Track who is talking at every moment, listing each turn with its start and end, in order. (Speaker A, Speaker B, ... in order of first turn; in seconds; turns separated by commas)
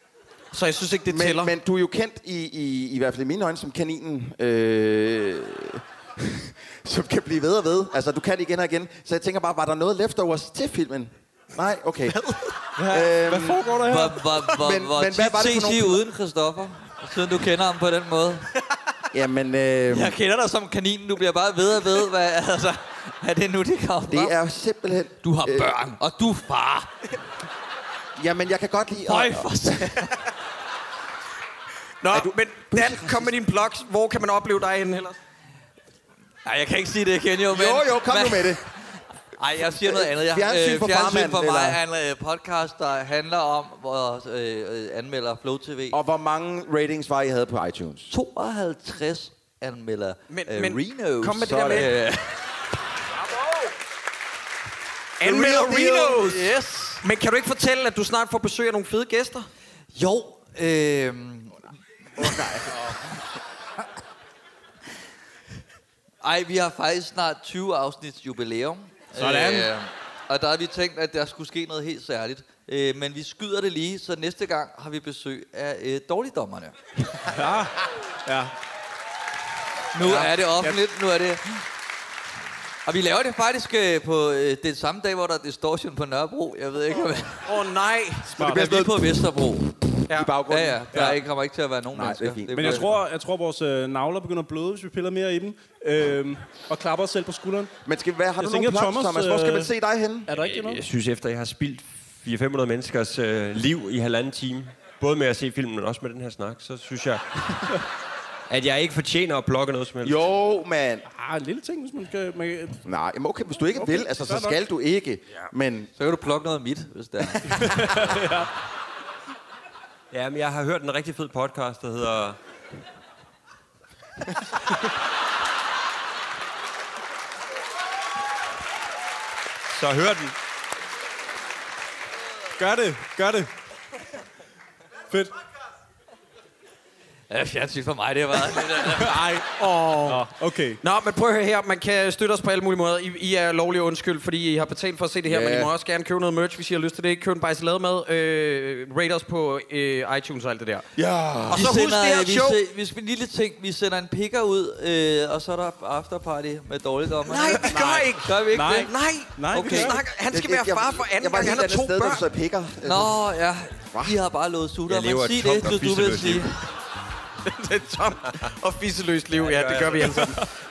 Speaker A: 0.5-1.5, Speaker B: 1.1-12.2, Speaker C: 12.8-14.3, Speaker B: 12.9-13.8, Speaker D: 13.9-18.5, Speaker B: 14.4-16.0, Speaker B: 19.1-20.1, Speaker D: 19.9-24.3, Speaker B: 24.1-25.8, Speaker D: 25.2-26.9, Speaker B: 28.2-30.1, Speaker D: 29.1-30.1, Speaker A: 32.0-35.2, Speaker B: 32.1-33.4, Speaker D: 36.5-46.0, Speaker B: 37.5-38.6, Speaker B: 39.6-41.8, Speaker B: 45.9-48.1, Speaker D: 48.1-52.3, Speaker A: 50.3-51.9, Speaker B: 51.3-51.9, Speaker B: 55.2-56.5, Speaker A: 55.2-59.5, Speaker D: 56.4-57.0, Speaker D: 59.9-61.6, Speaker B: 62.2-62.7, Speaker D: 66.2-76.8, Speaker C: 69.1-69.7, Speaker C: 77.3-78.5, Speaker D: 79.9-81.6, Speaker D: 82.9-87.4, Speaker A: 87.5-88.3, Speaker C: 88.3-88.8, Speaker D: 88.4-89.7, Speaker B: 88.5-88.9, Speaker A: 90.1-90.3, Speaker B: 90.1-91.0, Speaker D: 90.5-92.9, Speaker C: 90.9-91.2, Speaker B: 91.9-93.0, Speaker C: 92.5-97.7, Speaker B: 97.8-100.3, Speaker C: 98.4-99.7, Speaker C: 100.3-100.8, Speaker E: 100.4-107.5, Speaker E: 108.5-110.3, Speaker B: 110.0-111.0, Speaker C: 111.1-112.8, Speaker B: 112.8-115.9, Speaker C: 113.7-114.6, Speaker D: 116.0-117.7, Speaker C: 117.4-118.5, Speaker E: 120.1-122.4, Speaker E: 129.7-130.3, Speaker C: 132.6-133.5, Speaker D: 137.3-139.2, Speaker C: 138.8-140.8, Speaker A: 140.8-150.9, Speaker B: 145.3-145.7, Speaker B: 151.0-151.8, Speaker A: 151.5-152.6, Speaker D: 151.5-158.9, Speaker A: 157.3-158.3, Speaker C: 157.6-160.0, Speaker A: 158.9-162.2, Speaker D: 159.5-159.9, Speaker B: 160.3-163.1, Speaker D: 162.8-166.6, Speaker B: 163.9-164.2, Speaker E: 164.9-166.5, Speaker A: 167.4-170.4, Speaker E: 169.3-170.3